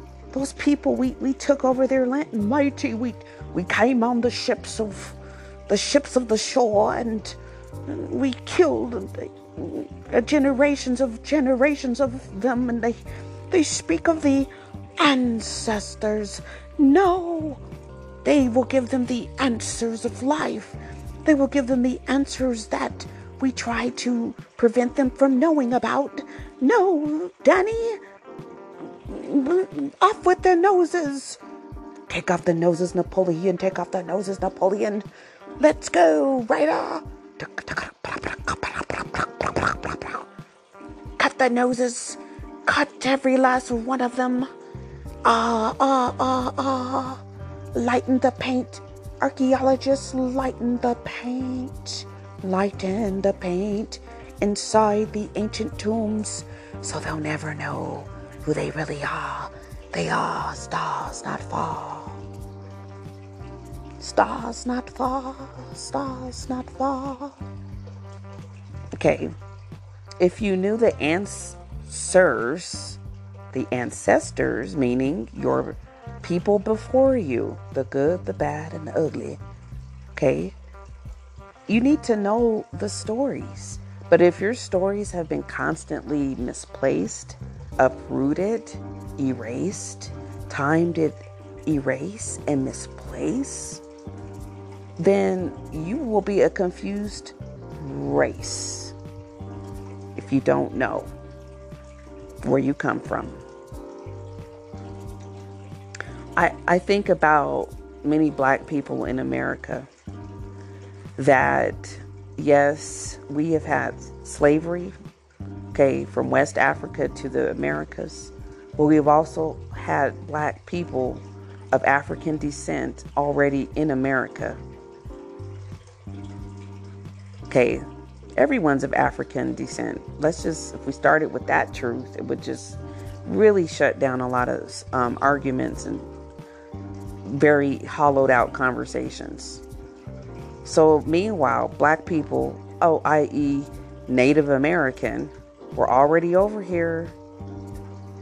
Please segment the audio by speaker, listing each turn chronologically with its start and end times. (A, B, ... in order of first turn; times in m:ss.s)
0:00.3-0:17.6 A
0:18.2-0:28.0 A
0:28.9-0:31.4 A
0:32.1-0:35.0 A
0:35.6-0:40.3 A
0:41.2-0:44.5 A
0:45.2-0:47.2 A
0:47.7-1:02.2 A
1:04.0-1:07.4 A
1:08.9-1:09.3 A
1:10.2-1:13.0 A
1:13.5-1:19.4 A
1:20.1-1:20.5 A
1:21.7-1:33.8 A
1:35.0-1:38.9 A
1:40.1-1:41.1 A
1:42.4-1:43.4 A
1:46.4-1:49.9 A
1:51.2-1:54.9 A
1:55.7-2:04.6 A
2:07.5-2:07.8 A
2:08.4-2:16.1 A
2:17.2-2:19.6 A
2:20.6-2:27.2 A